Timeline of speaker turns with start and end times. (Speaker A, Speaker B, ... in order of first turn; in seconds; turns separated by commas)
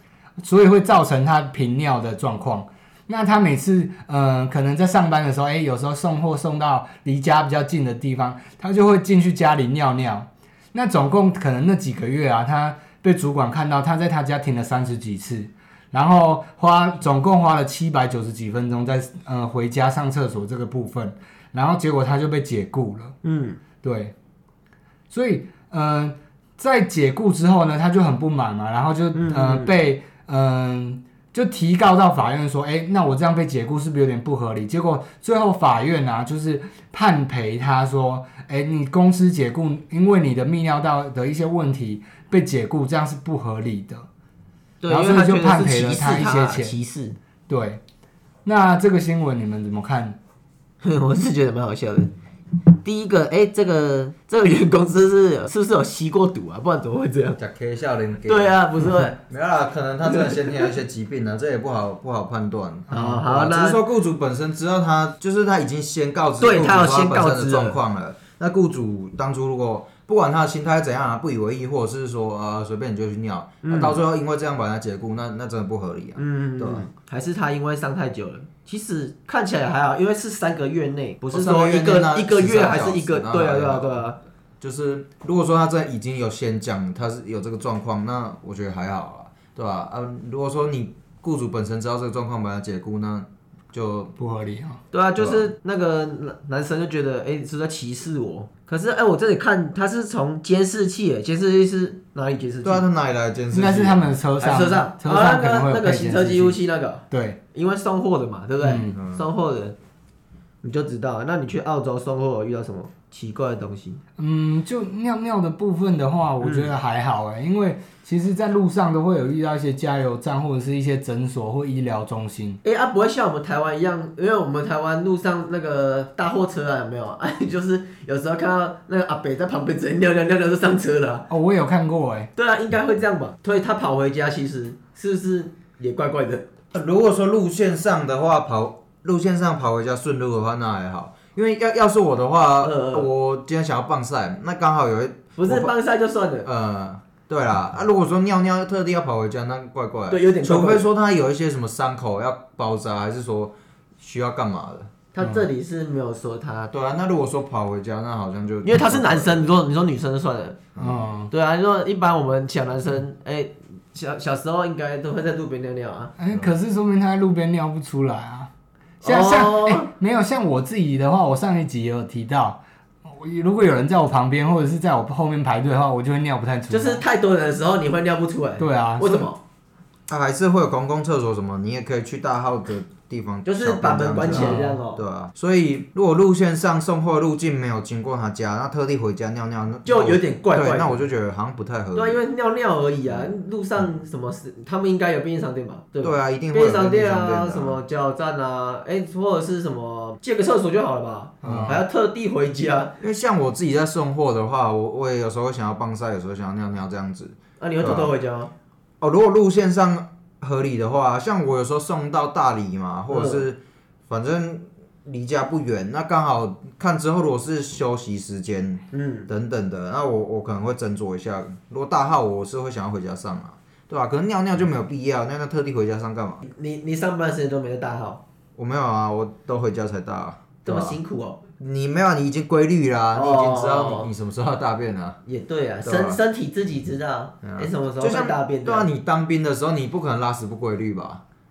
Speaker A: 0.4-23.2, Speaker B: 23.2-23.6, Speaker A: 23.8-24.1, Speaker A: 25.1-44.1, Speaker B: 29.1-29.7, Speaker B: 44.8-47.2, Speaker A: 44.9-46.8, Speaker A: 47.5-47.8, Speaker A: 48.5-50.2, Speaker B: 50.8-52.1, Speaker B: 52.8-57.4, Speaker C: 57.4-58.6, Speaker B: 58.3-59.2, Speaker C: 59.3-76.9, Speaker A: 62.9-63.2, Speaker B: 62.9-63.8, Speaker B: 66.4-67.8, Speaker B: 73.6-74.0, Speaker B: 76.2-84.2, Speaker C: 81.3-84.0, Speaker C: 84.6-94.1, Speaker A: 94.2-94.8, Speaker B: 94.9-102.8, Speaker C: 95.2-95.5, Speaker C: 102.6-104.1, Speaker A: 103.5-106.6, Speaker B: 104.4-109.8, Speaker A: 107.1-107.4, Speaker A: 108.6-109.0, Speaker C: 108.9-109.2, Speaker B: 110.6-114.0, Speaker A: 114.2-122.6, Speaker B: 116.4-116.7, Speaker B: 122.6-131.3, Speaker A: 131.3-132.3, Speaker B: 132.4-136.5, Speaker C: 136.7-145.8, Speaker B: 142.6-143.1, Speaker B: 145.3-146.5, Speaker C: 146.4-154.9, Speaker B: 150.1-150.9, Speaker B: 155.1-156.7, Speaker A: 155.2-155.5, Speaker C: 156.7-159.5, Speaker B: 158.6-160.6, Speaker C: 160.8-161.1, Speaker A: 160.8-161.3, Speaker B: 161.3-166.1, Speaker A: 166.2-168.5, Speaker A: 169.0-177.0, Speaker B: 169.0-169.9, Speaker B: 176.7-179.4, Speaker A: 178.6-179.3, Speaker C: 180.1-192.2, Speaker B: 183.5-185.0, Speaker A: 184.3-184.8, Speaker B: 189.8-191.1, Speaker B: 191.9-202.9, Speaker C: 193.1-193.3, Speaker C: 196.0-197.8, Speaker A: 201.4-201.8, Speaker C: 201.4-201.8, Speaker C: 203.0-208.1, Speaker B: 207.6-208.5, Speaker C: 209.0-226.4, Speaker B: 213.1-213.4, Speaker B: 218.9-219.3, Speaker B: 226.4-228.2, Speaker C: 228.6-231.0, Speaker B: 230.7-231.4, Speaker C: 231.6-235.2, Speaker B: 233.1-234.1, Speaker B: 235.3-238.9, Speaker C: 235.8-236.2, Speaker C: 237.4-241.2